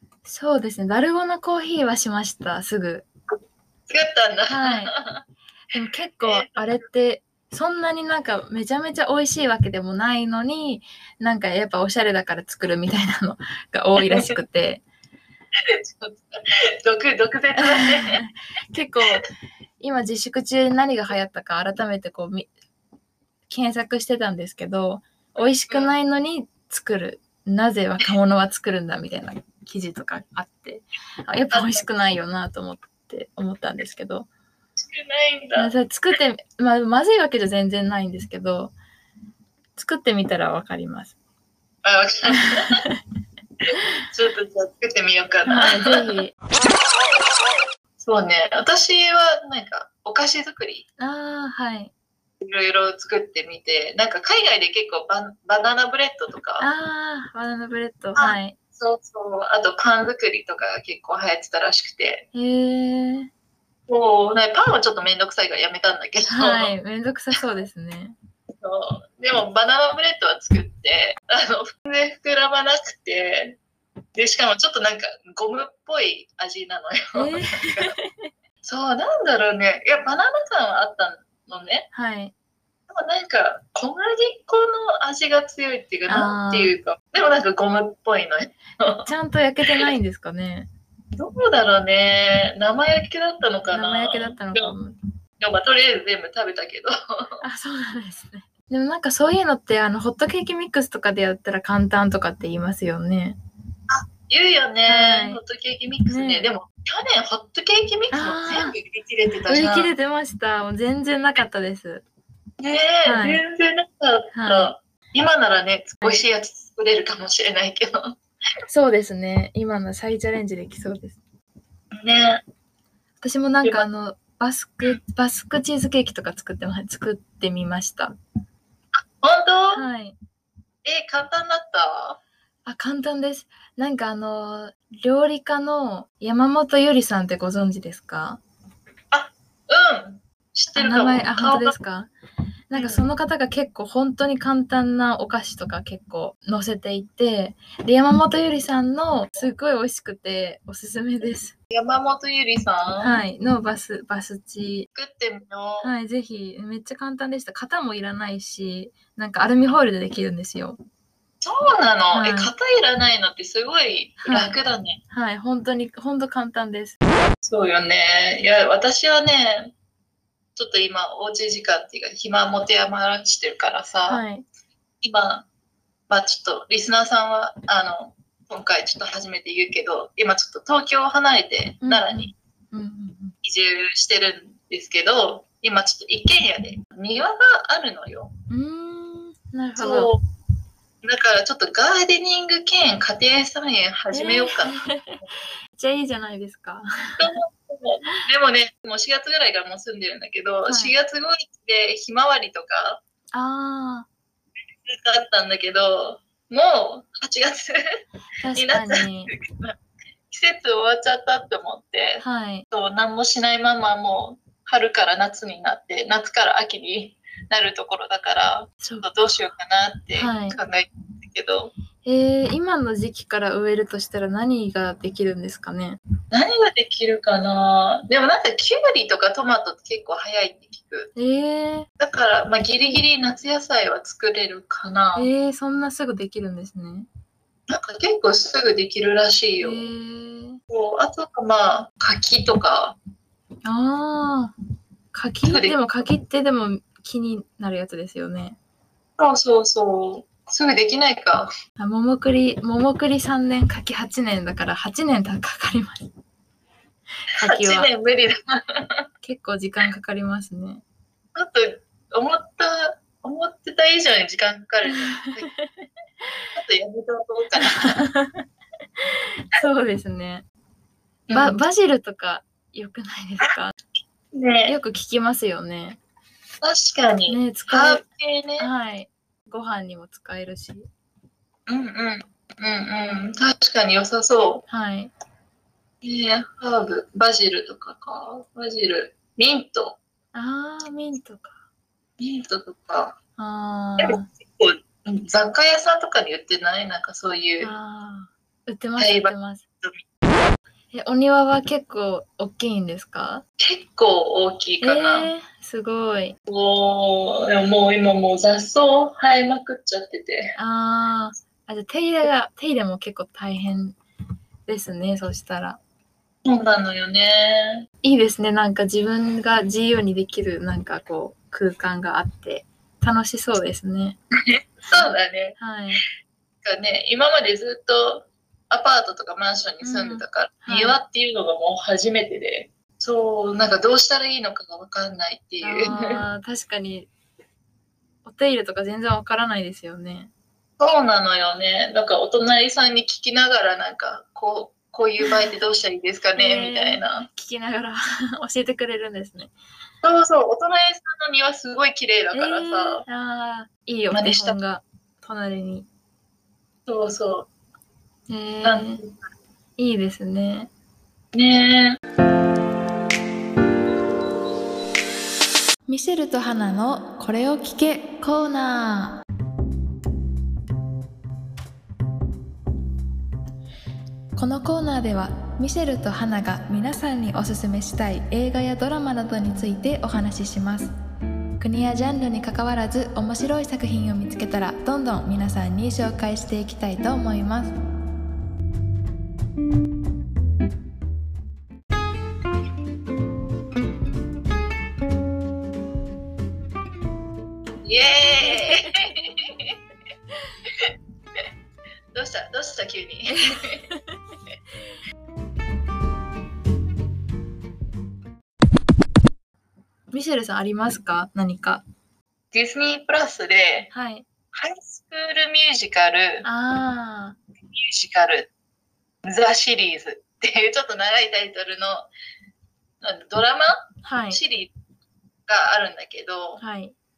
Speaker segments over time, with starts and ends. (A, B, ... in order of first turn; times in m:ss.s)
0:00.2-0:03.0 A
0:03.9-0:05.2 B
0:04.5-0:04.9 A
0:05.7-0:14.8 A
0:06.2-0:06.6 B
0:14.0-0:14.3 B
0:15.7-0:18.2 B
0:17.6-0:19.3 A
0:19.8-0:22.5 A
0:23.5-0:34.3 A
0:25.7-0:25.9 B
0:31.5-0:31.8 B
0:34.8-0:35.7 B
0:35.6-0:38.7 A
0:39.8-0:41.1 A
0:41.8-0:42.8 B
0:44.1-0:46.2 B
0:45.4-0:46.3 A
0:48.0-0:50.8 B
0:51.0-0:51.9 A
0:52.4-0:56.7 B
0:56.6-0:58.6 A
0:58.2-1:02.2 B
1:02.3-1:03.3 A
1:03.9-1:06.7 B
1:06.3-1:08.1 A
1:08.6-1:13.6 B
1:14.2-1:17.9 B
1:17.1-1:18.1 A
1:18.6-1:21.9 B
1:21.9-1:22.3 A
1:22.9-1:29.1 B
1:26.1-1:26.7 A
1:29.0-1:30.7 A
1:31.2-1:34.7 B
1:33.7-1:34.9 A
1:35.4-1:37.4 B
1:37.4-1:43.4 A
1:43.9-1:49.9 B
1:44.9-1:45.4 A
1:46.1-1:46.5 A
1:48.1-1:48.8 A
1:49.5-1:52.0 A
1:52.6-1:58.2 B
1:53.0-1:53.4 A
1:54.3-1:54.7 A
1:58.7-2:01.2 A
2:02.0-2:02.4 B
2:03.2-2:08.1 A
2:09.0-2:09.8 B
2:09.7-2:10.1 A
2:10.8-2:12.2 B
2:12.6-2:18.4 A
2:19.1-2:21.7 B
2:20.7-2:22.1 A
2:22.7-2:31.5 A
2:22.7-2:23.0 B
2:31.7-2:33.2 B
2:33.0-2:34.9 A
2:34.9-2:35.9 B
2:35.8-2:40.8 A
2:41.4-2:45.0 B
2:42.1-2:42.5 A
2:44.2-2:44.6 A
2:45.1-2:47.0 A
2:47.4-2:49.7 B
2:50.6-2:54.2 B
2:54.1-2:54.4 A
2:55.0-2:55.4 B
2:56.1-3:02.3 B
3:01.8-3:03.3 A
3:03.4-3:08.3 B
3:08.5-3:10.1 A
3:09.8-3:10.2 B
3:11.0-3:14.8 B
3:14.1-3:15.2 A
3:15.8-3:17.3 A
3:17.2-3:23.0 B
3:20.6-3:20.9 A
3:23.3-3:24.1 A
3:24.8-3:27.8 B
3:28.4-3:29.3 A
3:28.5-3:29.8 B
3:30.3-3:41.7 B
3:32.2-3:32.6 A
3:38.8-3:39.1 A
3:40.2-3:40.6 A
3:42.0-3:46.0 A
3:46.3-3:51.1 B
3:51.1-3:51.9 A
3:52.0-3:55.3 B
3:55.1-3:57.1 A
3:57.7-3:59.9 B
3:59.6-4:00.6 A
4:00.7-4:03.0 B
4:03.6-4:04.5 A
4:05.1-4:08.6 A
4:05.4-4:05.8 B
4:09.2-4:11.5 B
4:11.8-4:16.1 A
4:17.4-4:17.9 A
4:17.4-4:19.1 B
4:19.2-4:20.8 A
4:21.3-4:25.5 B
4:24.8-4:25.9 A
4:26.5-4:28.0 B
4:27.6-4:28.4 A
4:29.0-4:30.4 A
4:31.3-4:31.6 B
4:31.3-4:33.7 A
4:34.3-4:34.8 B
4:34.6-4:36.0 A
4:36.6-4:38.7 B
4:37.3-4:38.0 A
4:38.6-4:40.8 A
4:41.7-4:44.6 B
4:44.7-4:45.1 A
4:46.0-4:50.0 B
4:50.3-4:51.6 A
4:52.2-4:53.2 B
4:53.4-4:54.2 A
4:54.0-4:57.7 B
4:57.6-4:59.6 A
4:59.0-5:00.0 B
5:00.9-5:03.4 A
5:03.6-5:05.3 B
5:04.8-5:06.4 A
5:06.5-5:10.5 B
5:10.6-5:14.0 A
5:14.6-5:15.8 A
5:16.4-5:17.9 B
5:18.0-5:24.2 A
5:24.5-5:25.6 B
5:25.6-5:26.0 A
5:26.6-5:36.2 B
5:29.8-5:31.0 A
5:35.6-5:37.1 A
5:38.2-5:40.3 A
5:40.8-5:47.3 B
5:46.4-5:49.5 A
5:50.0-5:53.0 B
5:52.3-5:55.8 A
5:54.1-5:54.6 B
5:56.9-5:57.5 B
5:58.3-5:59.0 A
5:58.6-5:59.2 B
5:59.8-6:00.7 A
6:01.3-6:02.0 B
6:05.9-6:09.2 A
6:14.3-6:20.9 A
6:21.6-6:27.8 A
6:37.8-6:39.7 B
6:38.4-6:38.9 A
6:42.1-6:43.8 B
6:43.3-6:44.2 A
6:50.1-6:51.8 A
6:52.5-6:53.9 B
6:53.9-6:54.2 A
6:54.5-6:56.5 B
6:56.4-6:57.4 A
6:57.7-6:58.5 B
6:59.2-7:02.1 B
7:03.0-7:04.7 B
7:04.0-7:04.4 A
7:05.5-7:06.6 B
7:06.6-7:06.9 A